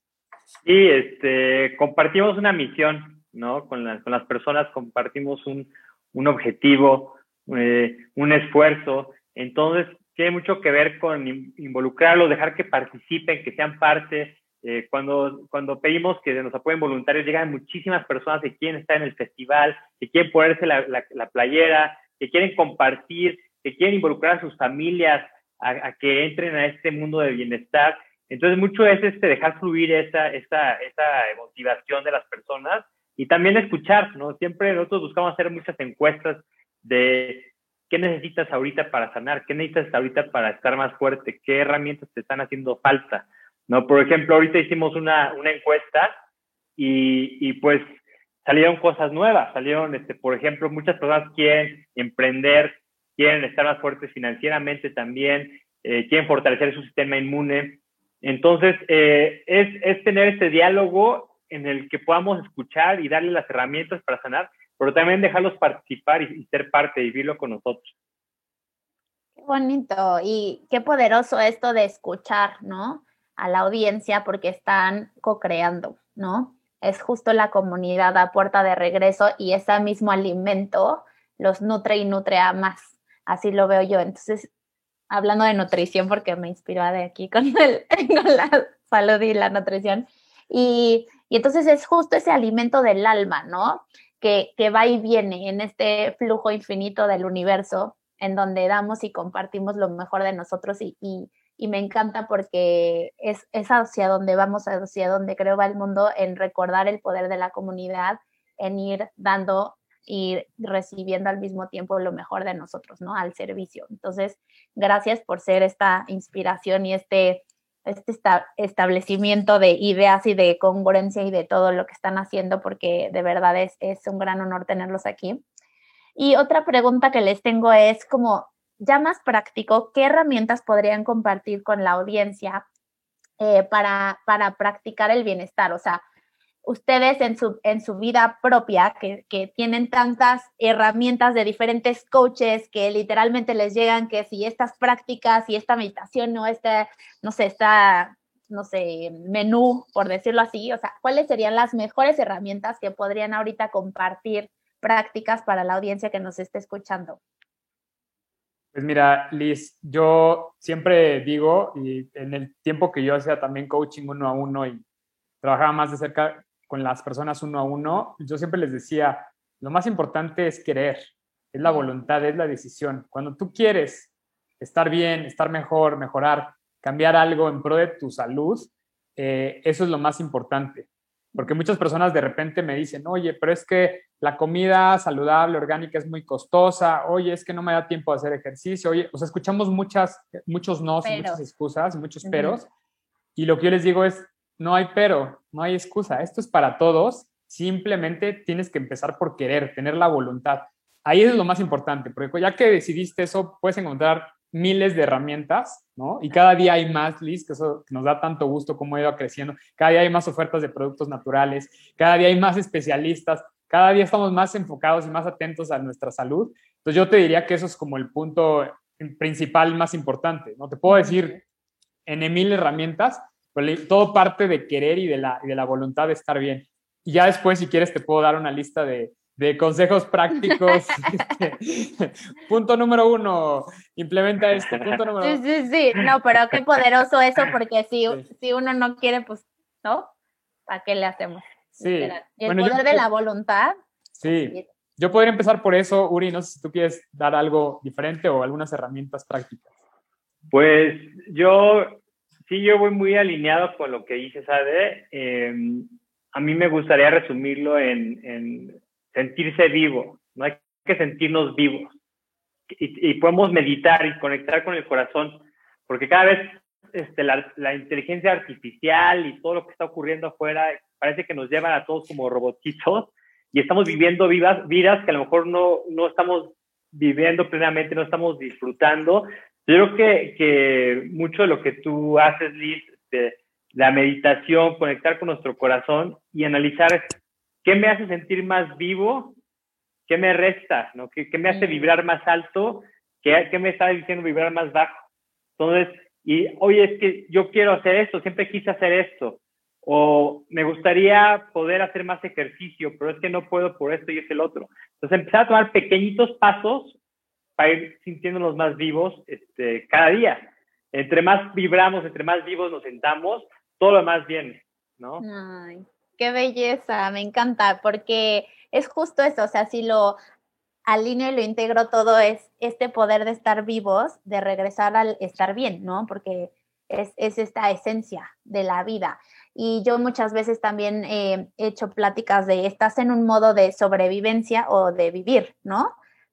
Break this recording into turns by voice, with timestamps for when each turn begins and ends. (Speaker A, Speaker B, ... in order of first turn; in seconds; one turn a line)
Speaker A: 0.6-46.1
Speaker A: 46.8-47.8
Speaker A: 48.4-67.9
Speaker B: 69.4-84.5
Speaker B: 85.1-125.4
Speaker B: 126.2-132.6
Speaker B: 133.4-136.0
Speaker B: 136.6-157.2
Speaker C: 158.7-164.8
Speaker C: 165.4-192.7
Speaker B: 191.0-191.4
Speaker B: 192.2-192.6
Speaker C: 193.3-221.4
Speaker B: 220.9-221.4
Speaker C: 222.1-235.4
Speaker B: 230.5-231.0
Speaker B: 235.2-240.1
Speaker B: 240.7-244.7
Speaker C: 241.8-243.0
Speaker C: 244.2-249.7
Speaker A: 250.5-262.0
Speaker A: 262.7-287.0
Speaker A: 287.6-289.4
Speaker A: 290.1-295.0
Speaker B: 291.5-292.0
Speaker A: 295.6-307.0
Speaker A: 307.6-315.2
Speaker B: 315.2-320.2
Speaker B: 320.9-336.0